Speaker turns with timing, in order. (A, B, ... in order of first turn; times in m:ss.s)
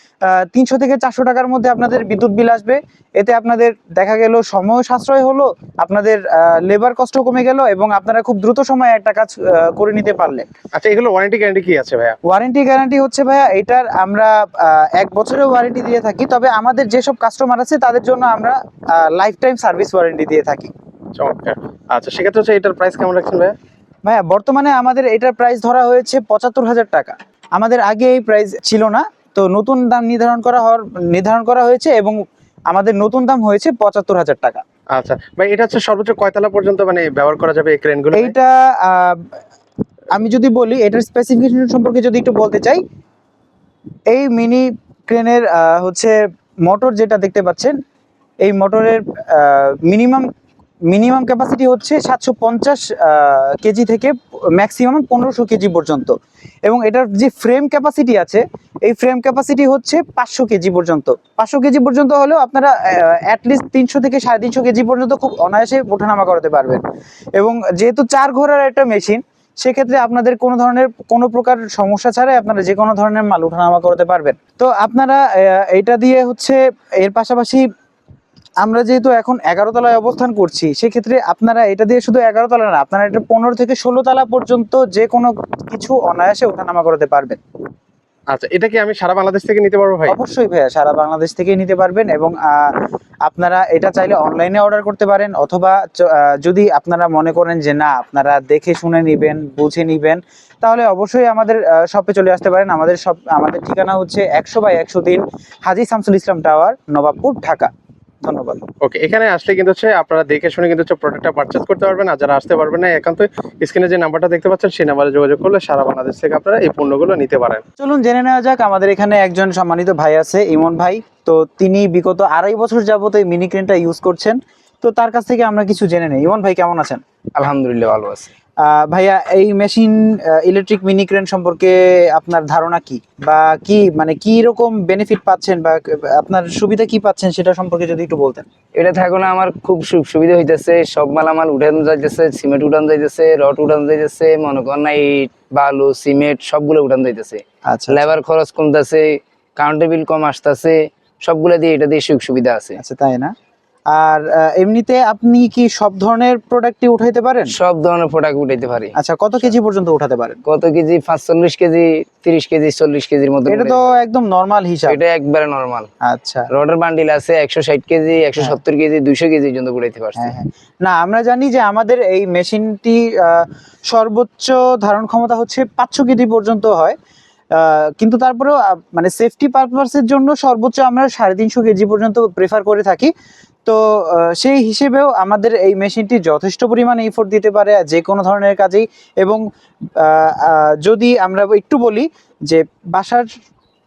0:00.2-0:10.5 A
0:10.8-0:12.2 B
0:12.3-0:20.7 A
0:21.2-0:23.5 B
0:24.0-0:32.2 A
0:32.7-0:34.6 A
0:34.9-0:38.3 B
0:38.1-0:39.4 A
0:40.1-0:42.8 A
0:44.1-0:47.8 A
0:48.4-0:50.3 A
0:50.9-1:06.8 A
1:07.4-1:17.6 A
1:18.6-1:27.4 A
1:28.3-1:30.2 B
1:30.1-1:32.7 A
1:33.2-1:47.7 A
1:48.2-1:48.6 A
1:48.8-1:57.6 B
1:57.8-2:07.0 A
2:07.4-2:08.3 C
2:08.6-2:18.5 A
2:18.7-2:32.8 C
2:27.7-2:28.1 A
2:32.8-2:33.3 A
2:33.9-2:37.5 A
2:37.5-2:38.9 C
2:39.0-2:40.4 A
2:40.4-2:43.9 C
2:43.5-2:45.0 A
2:44.9-2:45.9 C
2:46.0-2:46.5 A
2:46.5-2:50.3 C
2:50.2-2:57.0 A
2:57.6-3:03.1 A
3:03.6-3:09.4 A
3:10.0-3:13.3 A